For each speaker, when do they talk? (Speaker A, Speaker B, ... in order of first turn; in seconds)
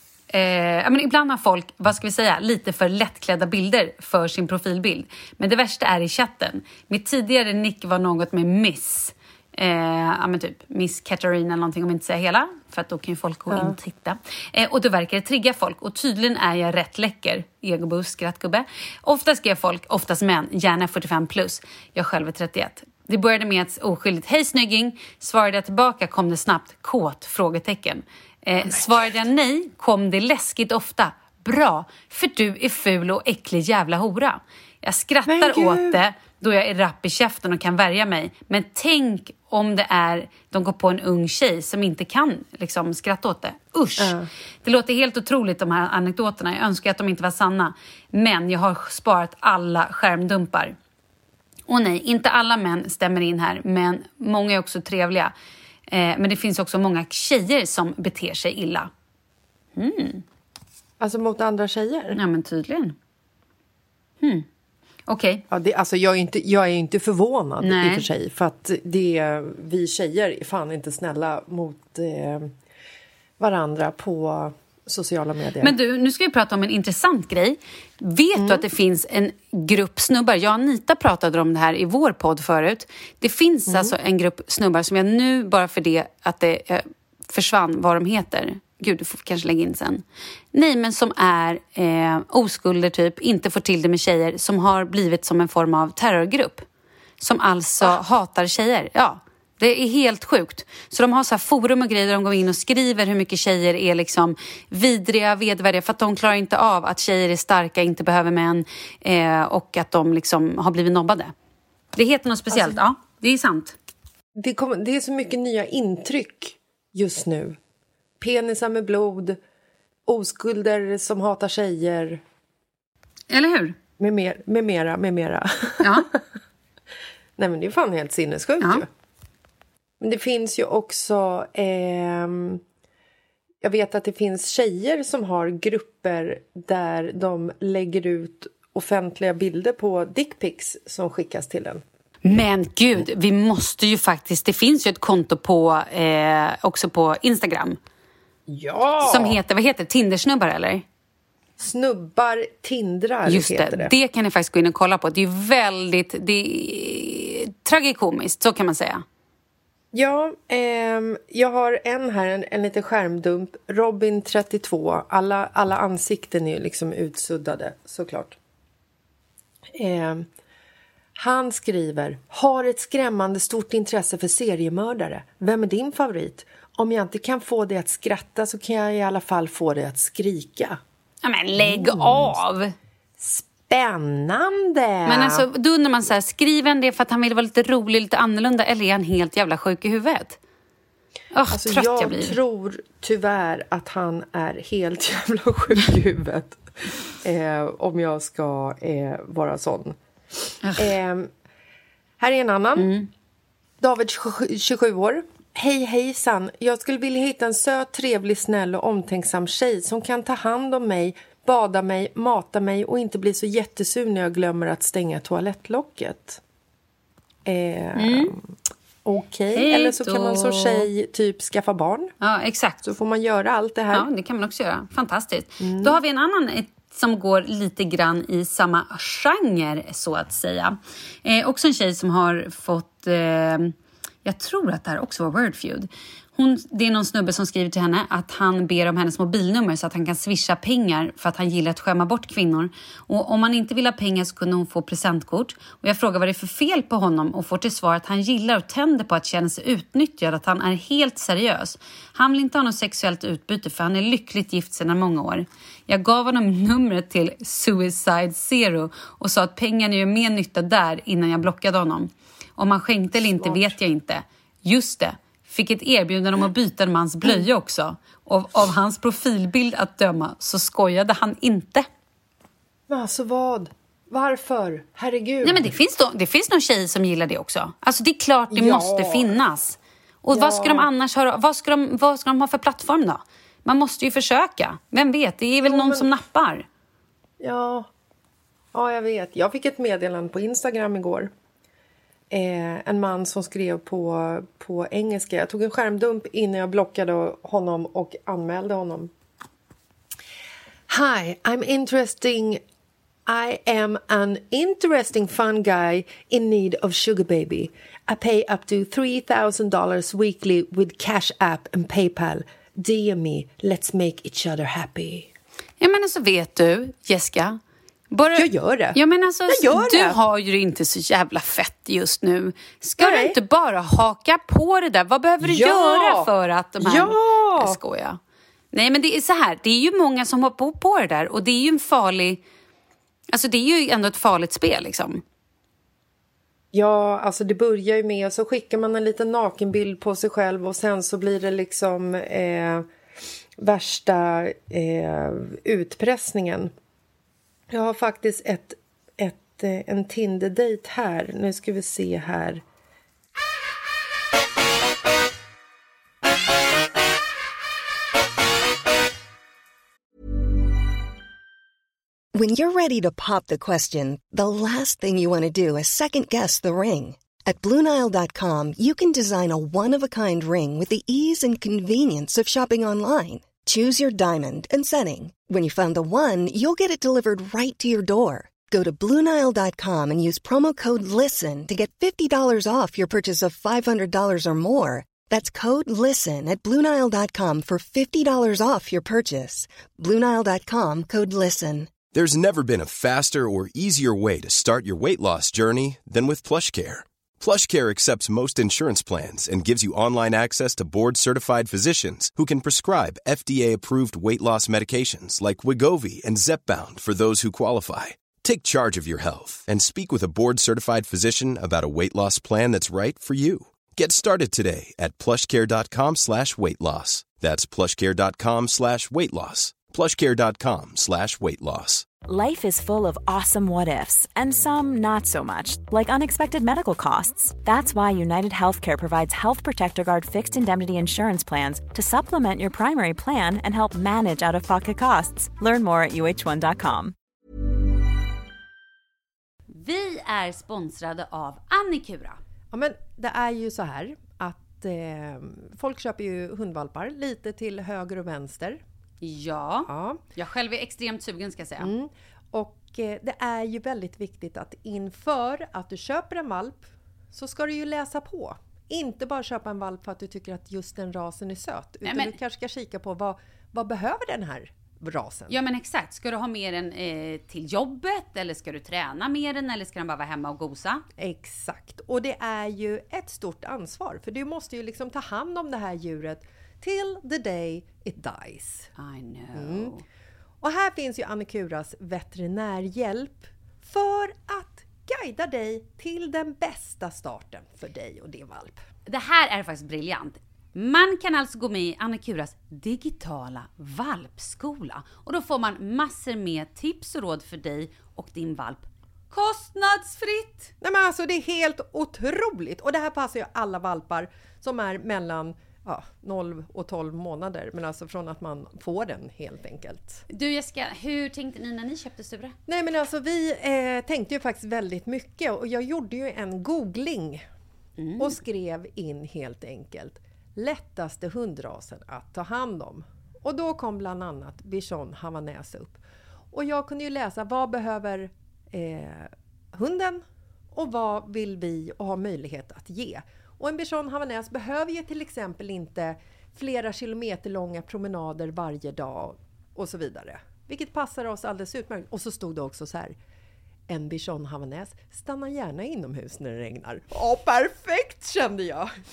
Speaker A: 0.3-50.8, 51.7-55.3, 55.9-58.9, 59.8-60.2, 62.1-63.0, 64.2-64.5, 65.1-65.4, 67.6-68.1, 75.6-96.7, 97.2-111.3, 111.9-113.8, 123.3-123.8, 125.8-126.1, 142.2-147.8, 149.0-150.8, 153.2-159.0, 181.2-182.7, 185.1-190.4, 191.3-192.4, 200.6-200.9, 202.8-203.1, 218.0-218.3, 219.5-220.9, 222.2-222.8, 223.9-233.7, 234.2-271.9, 275.4-286.6, 315.8-317.6, 318.1-328.2, 328.7-332.4, 333.3-335.2, 439.7-442.4, 449.2-451.9, 462.0-462.3, 465.5-471.0, 478.9-480.0, 489.1-500.7, 510.3-512.5, 518.0-518.3
Speaker B: 13.5-13.8, 35.2-36.0, 44.0-44.3, 61.0-62.2, 65.5-72.5, 73.4-75.7, 78.3-78.6, 83.7-83.9, 112.5-112.8, 114.4-117.6, 118.2-119.4, 120.0-122.2, 124.0-126.2, 127.4-128.9, 130.0-132.6, 133.6-141.8, 148.5-149.4, 151.6-153.9, 159.9-168.4, 169.8-170.3, 171.2-180.8, 181.6-182.3, 183.2-185.4, 191.5-200.0, 200.8-201.3, 202.2-202.9, 203.8-216.4, 217.4-218.5, 219.0-222.1, 222.8-224.1, 225.6-226.0, 263.4-263.8, 272.9-275.7, 278.5-279.4, 280.3-280.9, 285.6-286.1, 287.4-287.9, 288.7-291.3, 292.3-299.1, 300.9-302.6, 303.3-315.3, 318.3-320.2, 323.0-323.4, 325.4-327.8, 336.7-342.9, 343.6-346.7, 347.7-352.6, 442.7-448.8, 449.9-450.2, 451.8-465.6, 471.2-478.9, 479.5-479.9, 480.6-488.8, 500.8-510.2, 512.7-517.5, 518.2-543.1, 543.9-548.9
Speaker C: 362.3-391.9
Speaker D: 392.1-422.1
Speaker E: 422.3-437.1